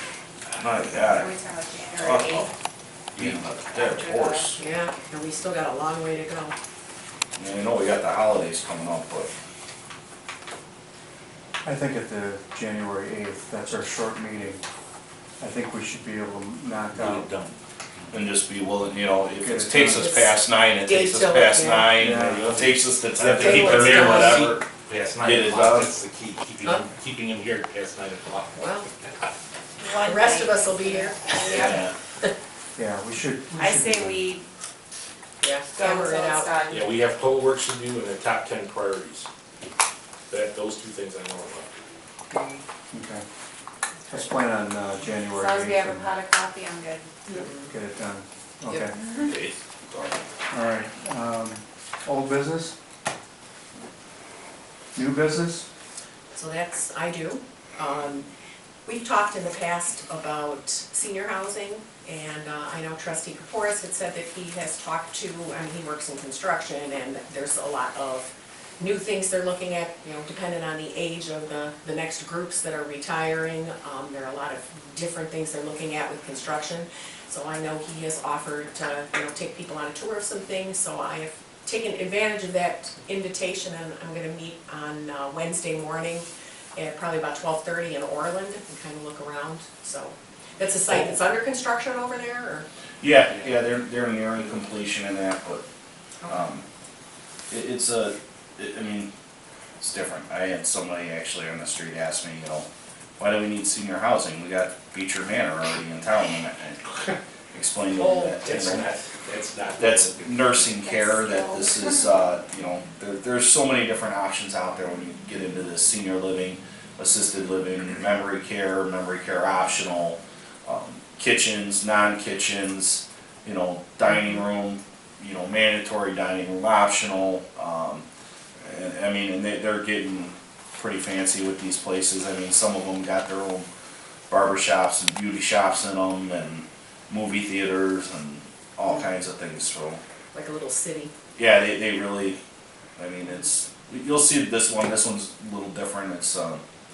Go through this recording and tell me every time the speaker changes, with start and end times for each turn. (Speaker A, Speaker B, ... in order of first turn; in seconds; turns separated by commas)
Speaker A: 0.4-1.3, Speaker B: 0.9-2.5, Speaker A: 1.9-2.5, Speaker C: 3.1-3.4, Speaker A: 3.1-4.6, Speaker B: 3.6-4.5, Speaker D: 4.6-6.5, Speaker A: 7.3-9.3, Speaker E: 11.6-14.6, Speaker E: 15.4-17.3, Speaker C: 16.9-17.6, Speaker A: 18.1-24.6, Speaker E: 19.4-20.0, Speaker D: 19.9-21.9, Speaker E: 21.9-22.6, Speaker C: 22.0-29.3, Speaker D: 23.3-24.5, Speaker A: 25.2-25.9, Speaker D: 28.6-28.9, Speaker B: 29.8-31.9, Speaker D: 29.9-32.3, Speaker A: 31.5-31.9, Speaker E: 32.8-34.3, Speaker B: 33.6-34.4, Speaker D: 35.4-36.6, Speaker B: 35.7-36.9, Speaker C: 36.7-39.3, Speaker C: 40.3-41.7, Speaker E: 42.9-43.2, Speaker E: 44.1-46.1, Speaker B: 45.3-47.3, Speaker D: 47.3-47.7, Speaker E: 47.5-49.0, Speaker C: 49.2-50.0, Speaker A: 49.2-50.1, Speaker E: 50.5-52.8, Speaker E: 54.9-55.7, Speaker D: 56.3-58.3, Speaker D: 58.9-92.7, Speaker A: 93.0-95.6, Speaker A: 96.2-96.6, Speaker A: 97.5-99.1, Speaker A: 99.8-102.7, Speaker A: 103.2-106.9, Speaker A: 107.5-108.9, Speaker C: 108.1-110.7, Speaker A: 109.8-128.0, Speaker B: 110.7-112.0, Speaker A: 128.6-133.7, Speaker A: 134.3-140.0, Speaker D: 140.3-141.1, Speaker A: 141.3-142.4, Speaker A: 143.0-146.6